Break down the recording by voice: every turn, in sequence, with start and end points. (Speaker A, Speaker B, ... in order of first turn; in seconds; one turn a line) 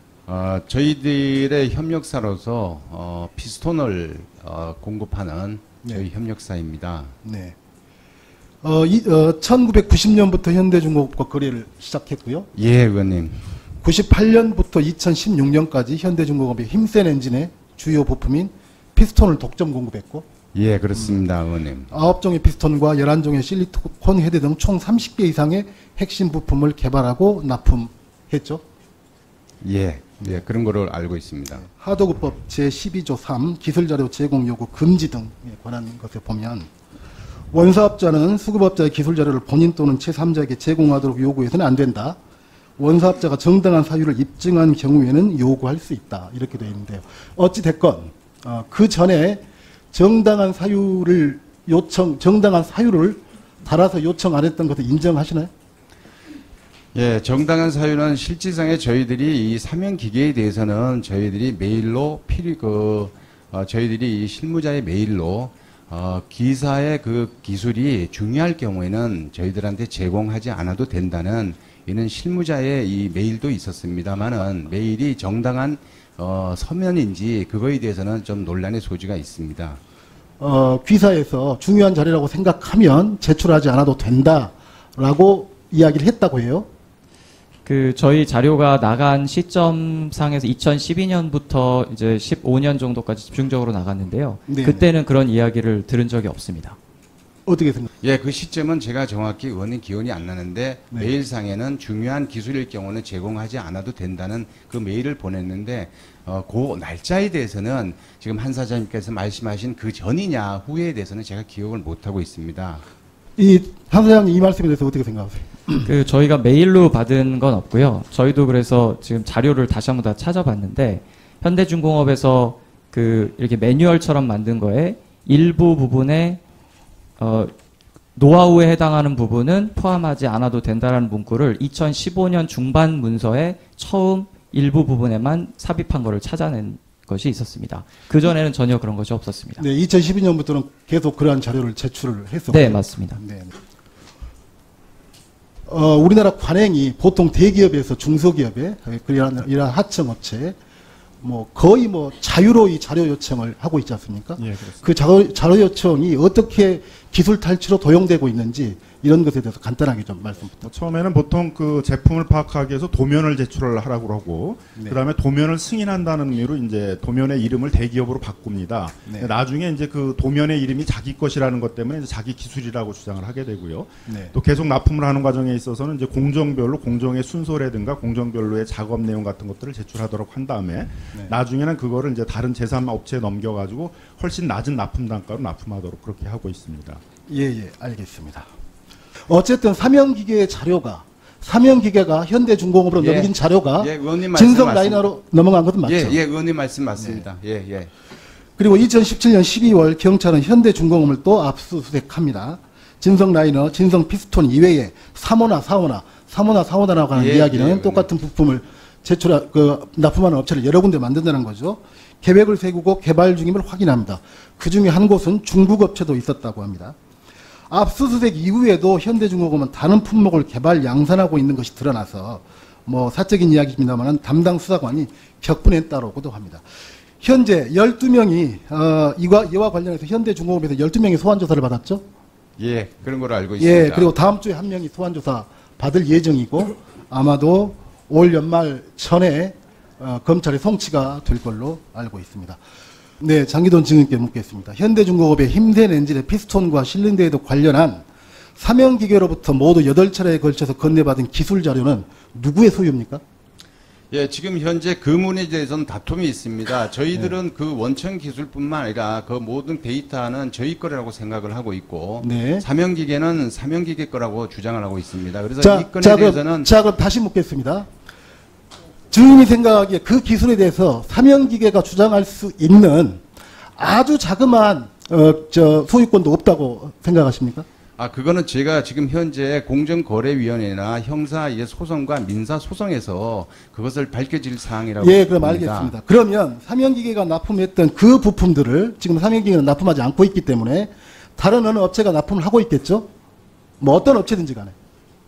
Speaker A: 0.3-7.2
Speaker B: 7.2-7.5
Speaker B: 8.6-12.5
Speaker A: 12.6-13.4
Speaker B: 13.8-20.3
Speaker A: 20.5-21.9
Speaker B: 20.9-21.2
Speaker B: 21.9-28.6
Speaker A: 29.6-31.6
Speaker B: 31.6-36.7
Speaker B: 37.5-42.2
Speaker B: 42.8-55.5
Speaker A: 56.9-79.8
Speaker B: 80.4-86.7
Speaker C: 87.7-96.8
Speaker B: 94.5-94.9
Speaker B: 97.5-97.9
Speaker A: 98.0-112.8
Speaker B: 113.4-115.9
Speaker C: 115.8-126.4
Speaker C: 127.2-127.5
Speaker C: 128.2-139.7
Speaker B: 139.6-143.5
Speaker C: 142.5-143.2
Speaker B: 145.7-150.6
Speaker B: 151.2-160.7
Speaker D: 154.4-154.8
Speaker D: 160.6-187.0
Speaker B: 164.8-165.0
Speaker B: 169.1-169.3
Speaker B: 174.1-174.3
Speaker B: 187.3-188.5
Speaker B: 189.3-196.2
Speaker A: 193.0-195.1
Speaker A: 195.8-197.9
Speaker B: 197.0-197.2
Speaker B: 198.6-216.9
Speaker A: 207.1-208.1
Speaker B: 217.7-226.6
Speaker B: 227.2-232.1
Speaker A: 232.6-234.1
Speaker B: 233.6-242.6
Speaker B: 243.2-248.1
Speaker B: 248.6-253.2
Speaker A: 254.1-266.7
Speaker B: 262.2-262.7
Speaker B: 265.6-267.9
Speaker B: 269.1-273.2
Speaker B: 273.8-277.7
Speaker A: 278.0-285.9
Speaker B: 285.0-293.1
Speaker B: 293.8-294.8